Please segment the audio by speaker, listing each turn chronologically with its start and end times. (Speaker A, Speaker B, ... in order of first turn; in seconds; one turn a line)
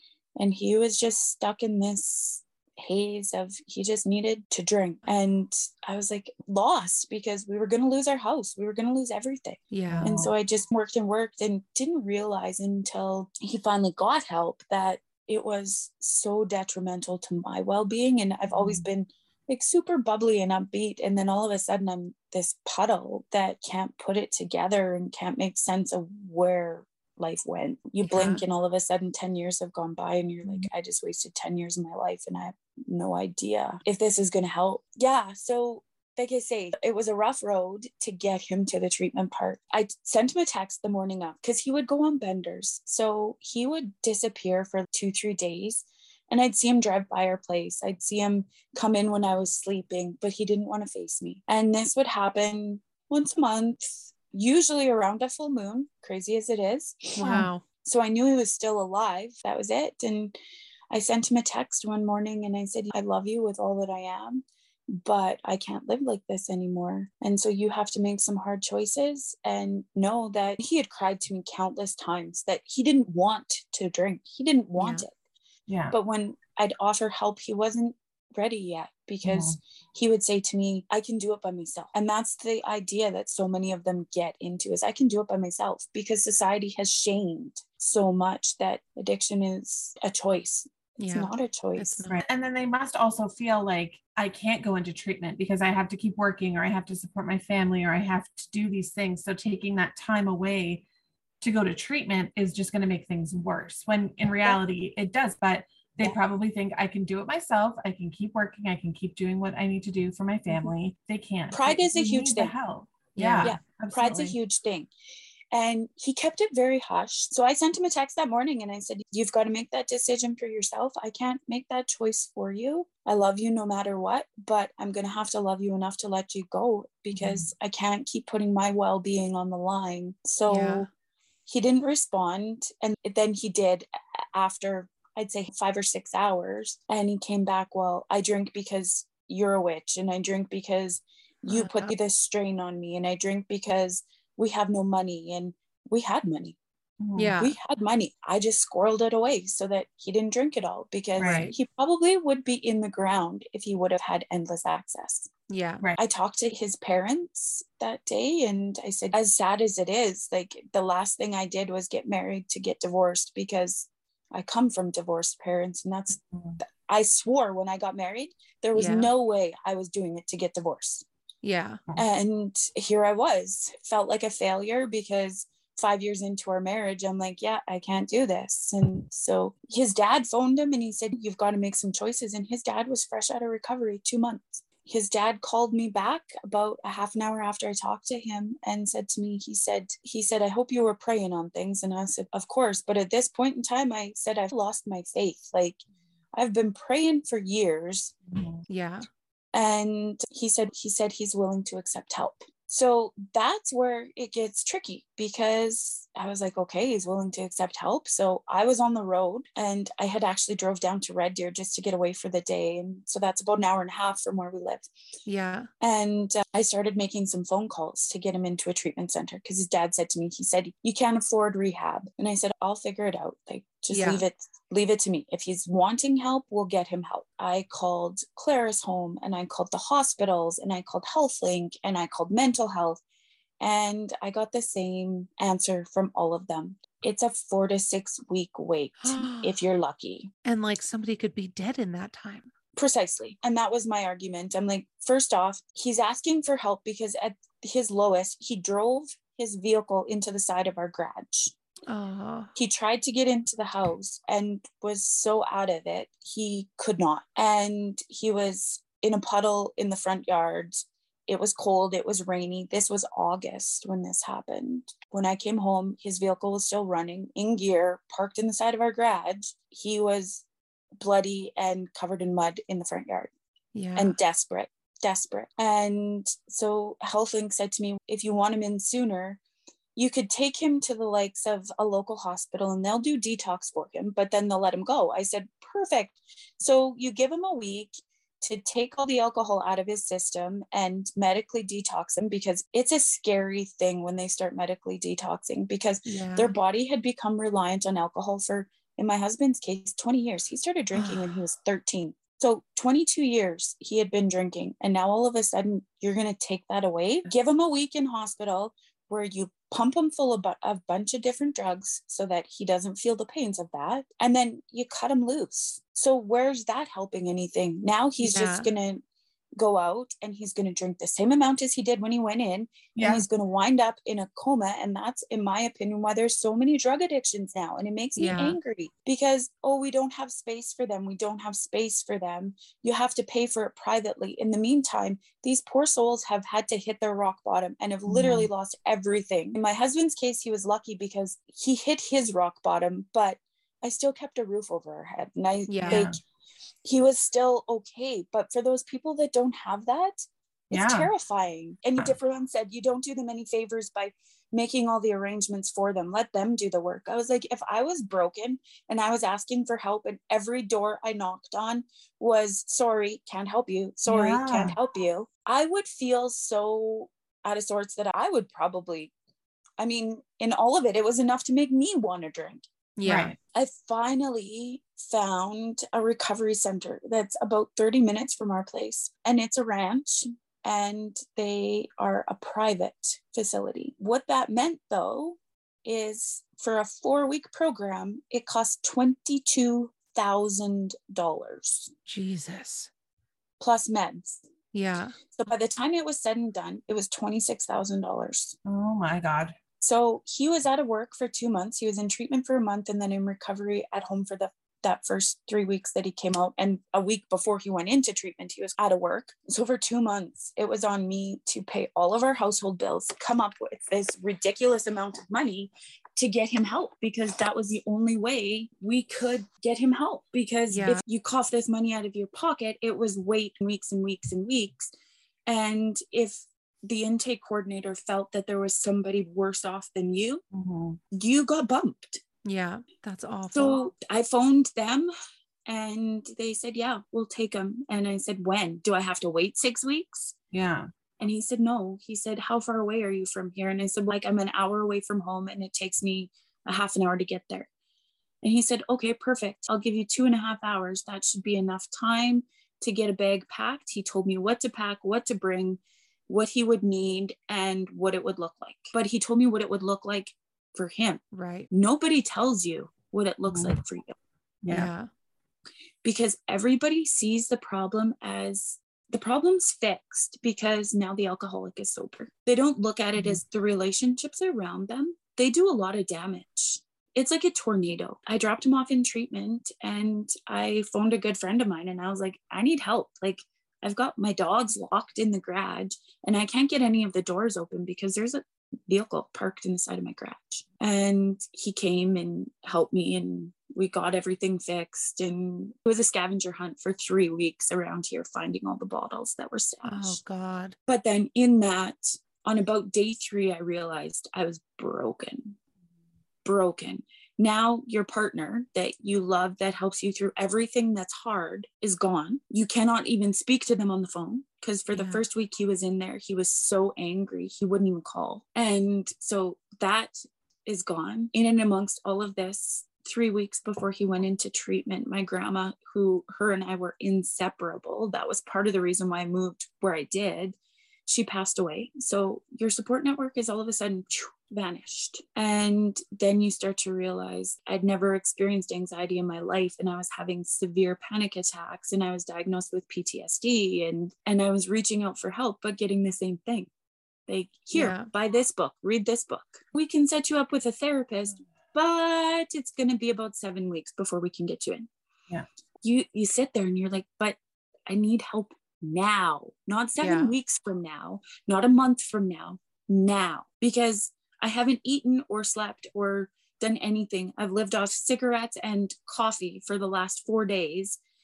Speaker A: 0.4-57.2
Speaker B: 9.7-10.2
Speaker C: 9.9-10.3
Speaker C: 18.5-18.9
Speaker B: 28.0-28.4
Speaker B: 57.1-57.6
Speaker C: 57.2-57.5
Speaker A: 57.8-60.4
Speaker A: 60.9-75.1
Speaker B: 74.8-75.0
Speaker C: 75.7-76.0
Speaker A: 75.9-92.0
Speaker C: 79.2-79.6
Speaker B: 91.0-92.2
Speaker C: 92.1-100.8
Speaker C: 101.4-114.4
Speaker A: 111.5-112.5
Speaker B: 113.2-113.6
Speaker A: 113.4-114.9
Speaker A: 115.5-130.9
Speaker C: 127.1-127.5
Speaker B: 130.5-130.9
Speaker A: 131.4-146.6
Speaker B: 141.5-141.9
Speaker C: 147.0-147.3
Speaker B: 147.2-147.6
Speaker A: 147.3-155.3
Speaker C: 151.2-151.5
Speaker B: 151.2-151.5
Speaker B: 155.5-155.8
Speaker A: 156.0-171.1
Speaker B: 168.7-169.1
Speaker B: 171.4-171.8
Speaker A: 171.9-195.8
Speaker A: 196.3-198.2
Speaker C: 198.3-198.6
Speaker B: 198.7-199.1
Speaker A: 199.5-214.9
Speaker B: 215.2-215.7
Speaker A: 215.8-233.0
Speaker B: 223.9-224.2
Speaker A: 233.6-240.3
Speaker B: 239.0-239.6
Speaker B: 240.4-242.5
Speaker A: 242.8-251.5
Speaker B: 251.9-252.5
Speaker A: 252.5-270.4
Speaker A: 271.0-273.3
Speaker B: 273.7-274.1
Speaker A: 273.9-279.4
Speaker A: 279.9-319.0
Speaker B: 296.1-296.5
Speaker B: 318.2-318.7
Speaker A: 319.6-346.1
Speaker C: 322.9-323.2
Speaker B: 328.2-328.6
Speaker C: 338.1-338.5
Speaker B: 345.7-346.1
Speaker C: 345.9-346.1
Speaker A: 346.8-369.1
Speaker C: 350.7-351.1
Speaker C: 364.1-364.8
Speaker A: 369.8-372.6
Speaker B: 373.0-373.3
Speaker C: 373.0-373.4
Speaker A: 373.5-391.9
Speaker B: 392.1-392.9
Speaker A: 393.6-394.4
Speaker B: 394.7-395.2
Speaker A: 395.3-398.6
Speaker C: 398.6-399.6
Speaker A: 399.8-424.9
Speaker B: 420.7-421.0
Speaker A: 425.4-430.4
Speaker C: 430.5-431.0
Speaker A: 431.1-432.2
Speaker B: 432.4-433.8
Speaker A: 433.5-435.1
Speaker A: 435.7-440.4
Speaker C: 440.5-440.9
Speaker A: 441.2-447.7
Speaker A: 448.4-464.1
Speaker B: 461.3-461.7
Speaker C: 463.4-463.8
Speaker C: 464.6-464.9
Speaker B: 464.7-465.1
Speaker A: 466.0-500.2
Speaker C: 473.1-473.4
Speaker B: 499.8-500.7
Speaker A: 500.9-505.6
Speaker A: 506.4-530.5
Speaker B: 514.9-515.2
Speaker A: 531.1-546.7
Speaker A: 547.3-554.9
Speaker B: 547.7-548.1
Speaker A: 555.8-571.0
Speaker B: 560.0-560.3